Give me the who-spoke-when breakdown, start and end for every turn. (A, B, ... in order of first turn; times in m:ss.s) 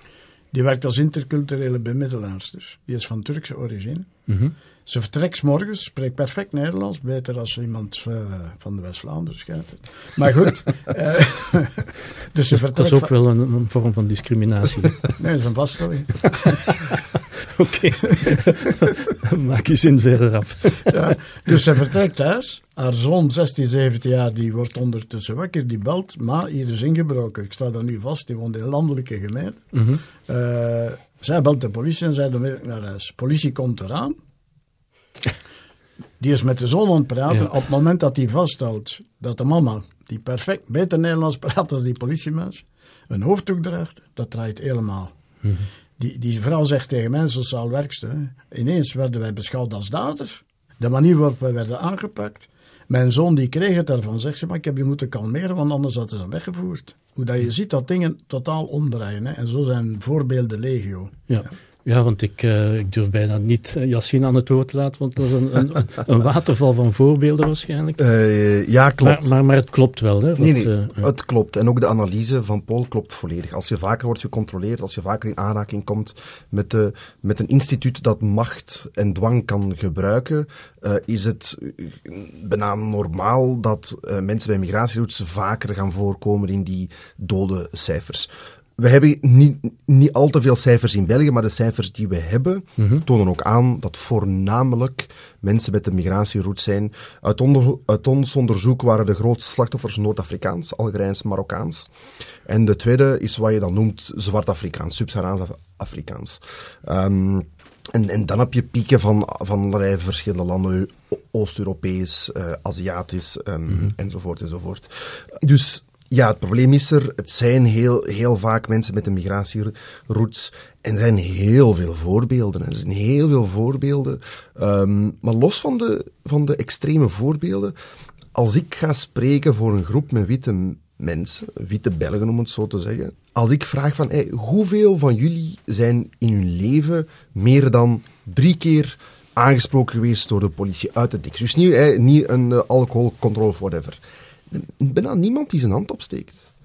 0:00.5-0:04.1 A
0:04.3-0:04.5 B
0:04.9-0:13.1 A
0:12.5-0:15.0 B
0:15.2-0:16.6 A
0:16.6-0:21.0 B
0:20.9-0:29.6 A
0:29.7-0:30.0 B
0:30.3-0:34.2 A
0:36.2-0:45.1 A
0:46.0-1:01.2 A
1:01.3-1:08.0 B
1:08.0-1:09.3 C
1:09.0-1:11.1 B
1:10.4-1:41.9 C
1:32.8-1:33.0 B
1:42.5-2:07.8 C
2:08.3-2:26.5 C